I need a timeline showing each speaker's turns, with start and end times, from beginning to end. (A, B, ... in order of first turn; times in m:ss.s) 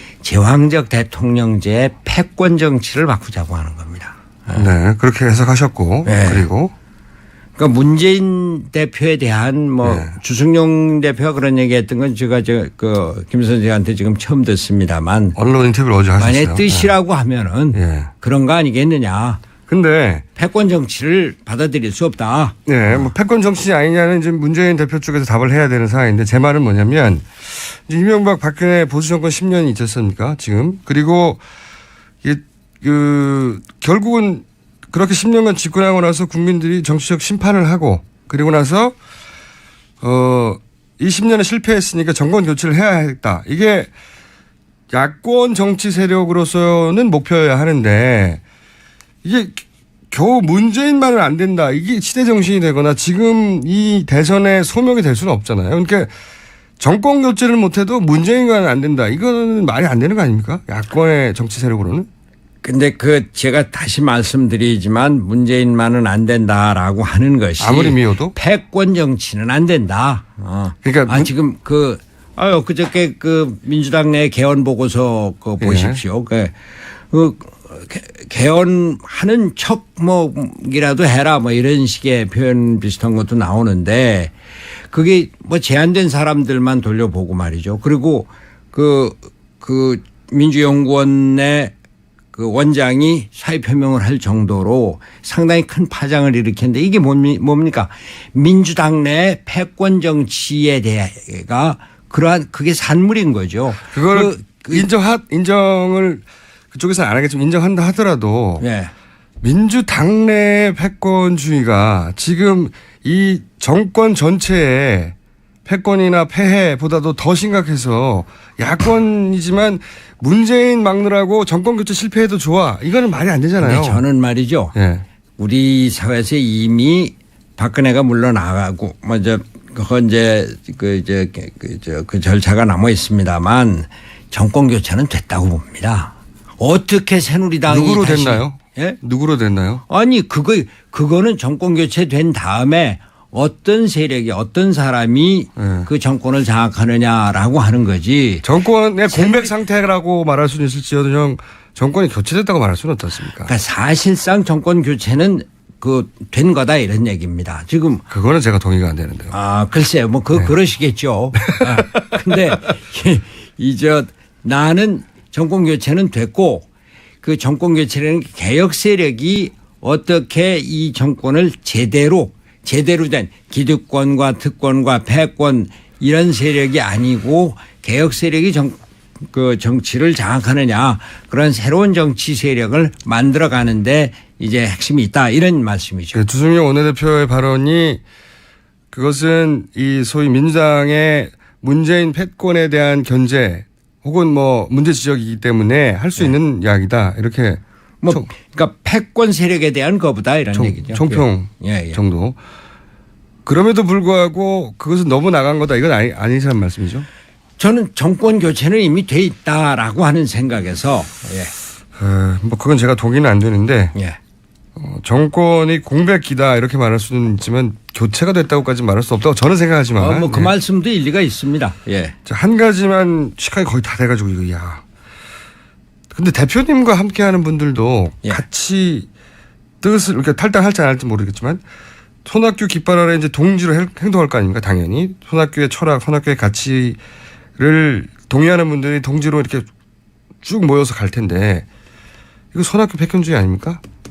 0:00.2-0:04.7 A
0:04.5-0:06.7 B
0:06.0-0:06.4 A
0:07.6-0:15.4 A
0:09.8-0:10.1 B
0:15.4-0:16.9 B
0:16.2-0:19.4 A
0:17.7-0:18.1 B
0:19.7-0:20.2 B
0:20.4-0:23.1 A
0:22.6-0:31.4 B
0:32.2-0:39.0 B
0:40.0-0:43.9 B
0:44.9-0:48.4 B
0:49.2-0:56.1 B
0:56.8-1:02.1 B
1:02.6-1:16.6 A
1:07.6-1:08.3 B
1:10.8-1:11.3 B
1:15.6-1:16.0 B
1:17.1-1:24.3 A
1:24.9-1:31.7 A
1:32.3-1:44.9 A
1:43.9-1:48.6 B
1:48.6-1:48.9 A
1:49.4-1:55.1 B
1:55.6-2:04.0 B
2:03.6-2:04.7 A
2:04.7-2:05.0 B
2:05.4-2:19.0 A
2:17.7-2:19.8 B
2:19.9-2:28.4 A
2:25.6-2:25.9 B
2:28.4-2:33.5 B
2:29.1-2:29.5 A
2:33.4-2:38.0 A
2:38.1-2:39.3 B
2:39.3-2:46.7 A
2:41.4-2:42.4 B
2:47.2-3:06.2 A
3:06.1-3:08.0 B
3:08.9-3:18.3 B
3:18.0-3:22.0 A
3:20.5-3:22.4 B
3:23.4-3:27.1 B
3:27.6-3:31.5 A
3:31.9-3:33.9 B
3:34.7-3:40.5 B
3:40.0-3:42.1 A
3:42.2-3:44.8 B
3:46.1-3:49.1 B
3:49.8-3:51.6 B
3:52.2-3:57.0 B
3:57.6-3:59.7 B
4:00.4-4:01.6 B
4:02.5-4:03.8 B